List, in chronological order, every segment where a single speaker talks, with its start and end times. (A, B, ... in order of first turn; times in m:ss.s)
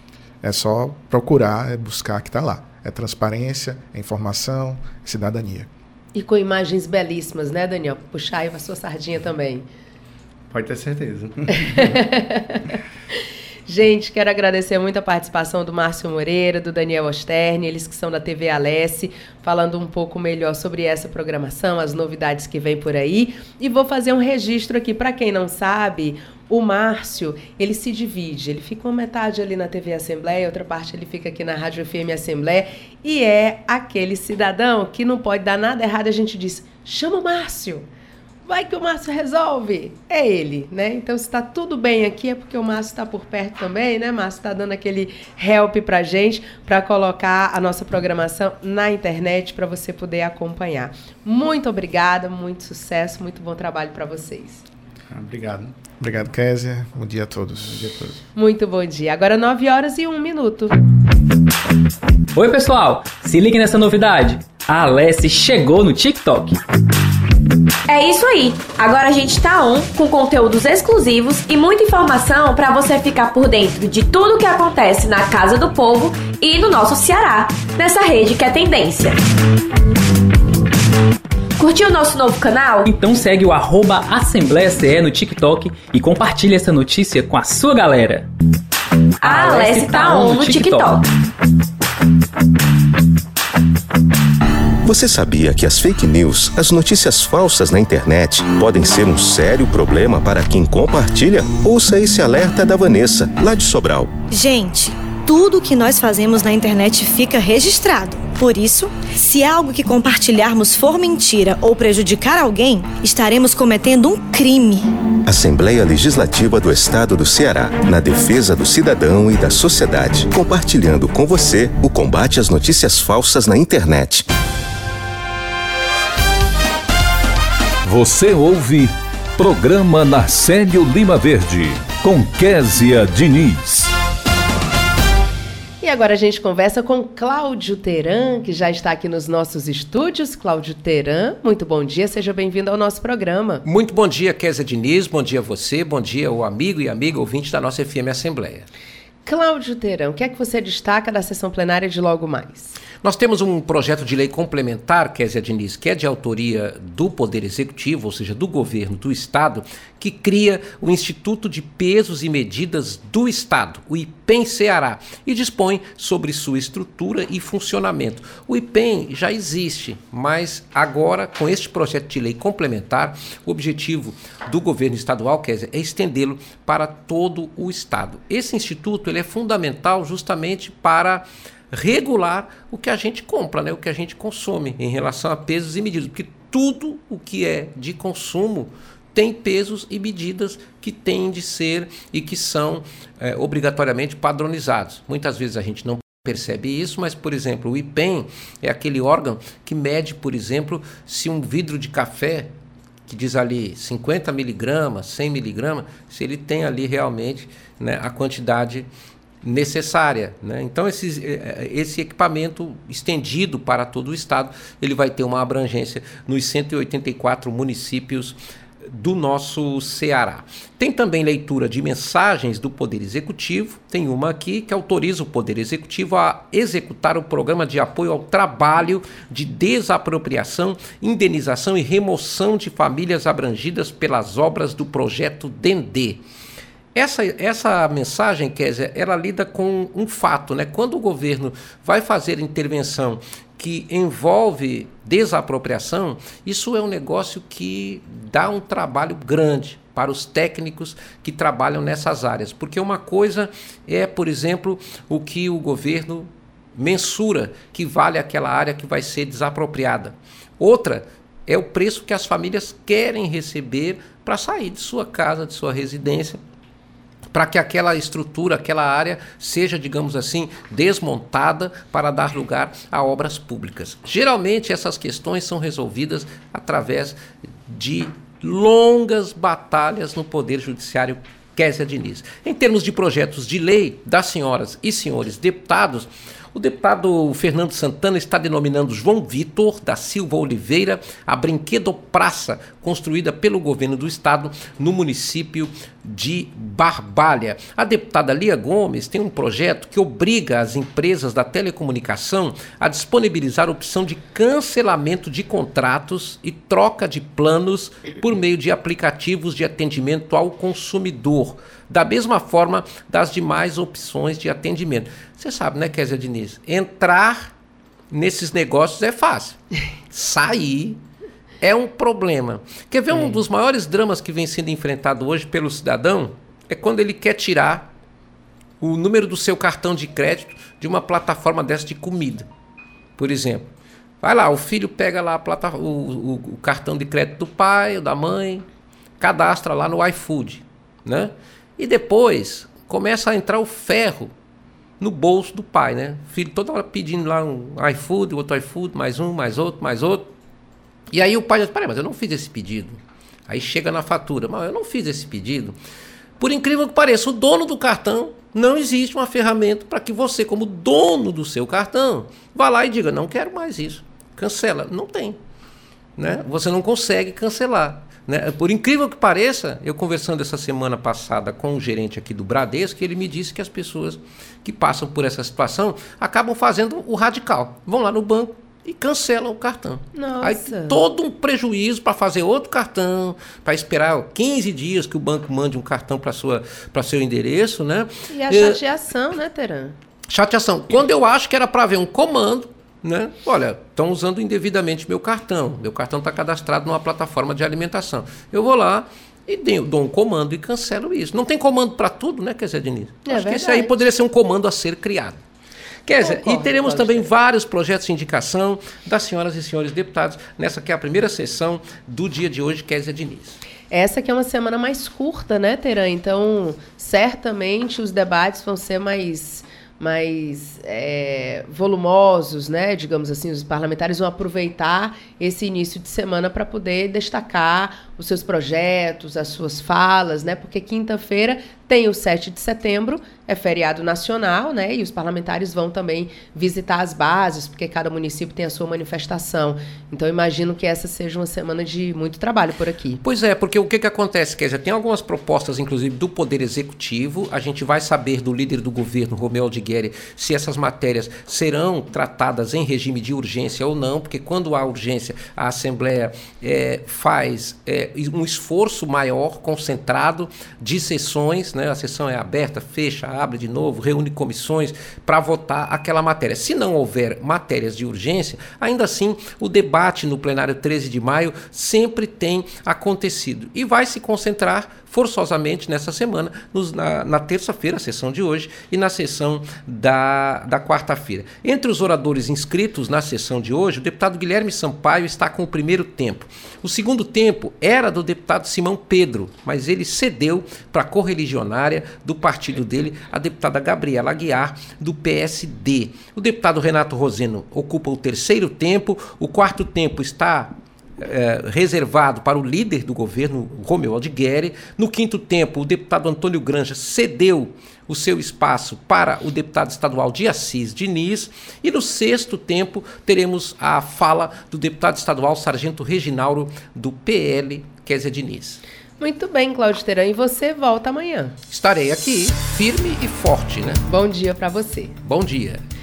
0:00.4-0:05.7 A
0:06.2-0:09.7 B
0:10.5-0:12.0 C
0:11.9-0:12.6 B
0:13.7-0:37.9 B
0:38.5-0:54.6 B
0:55.1-0:55.7 C
0:56.0-0:57.9 A
0:57.5-0:58.2 C
0:58.4-1:00.8 B
1:02.3-1:06.6 D
1:07.9-1:19.2 E
1:21.6-1:22.9 E
1:22.8-1:28.3 D
1:29.2-1:31.0 E
1:29.2-1:31.0 D
1:34.8-1:44.2 F
1:44.2-1:54.9 G
1:55.3-2:04.2 F
2:07.8-2:13.9 H
2:15.8-2:23.6 B
2:23.6-2:28.7 I
2:29.2-2:32.8 B
2:33.0-3:22.5 I
3:23.1-3:28.9 I
3:29.4-3:56.2 I
3:57.0-4:26.4 I
4:27.3-5:17.5 I
5:18.1-5:19.6 I
5:20.1-5:21.0 I
5:21.6-5:27.9 I
5:28.8-5:32.5 I
5:33.2-5:33.7 I
5:34.2-5:38.7 I
5:39.2-5:44.3 I
5:45.0-5:50.3 I
5:51.1-5:55.8 I
5:56.4-6:05.4 I
6:06.2-6:28.8 I
6:20.1-6:21.0 B
6:28.3-6:30.0 B
6:30.3-6:45.4 I
6:43.2-6:43.9 B
6:46.1-6:53.6 I
6:46.2-6:47.3 B
6:53.9-7:23.2 B
7:23.2-8:38.8 I
8:39.2-8:41.6 B
8:41.7-8:44.0 I
8:44.1-8:45.2 B
8:45.2-8:45.8 I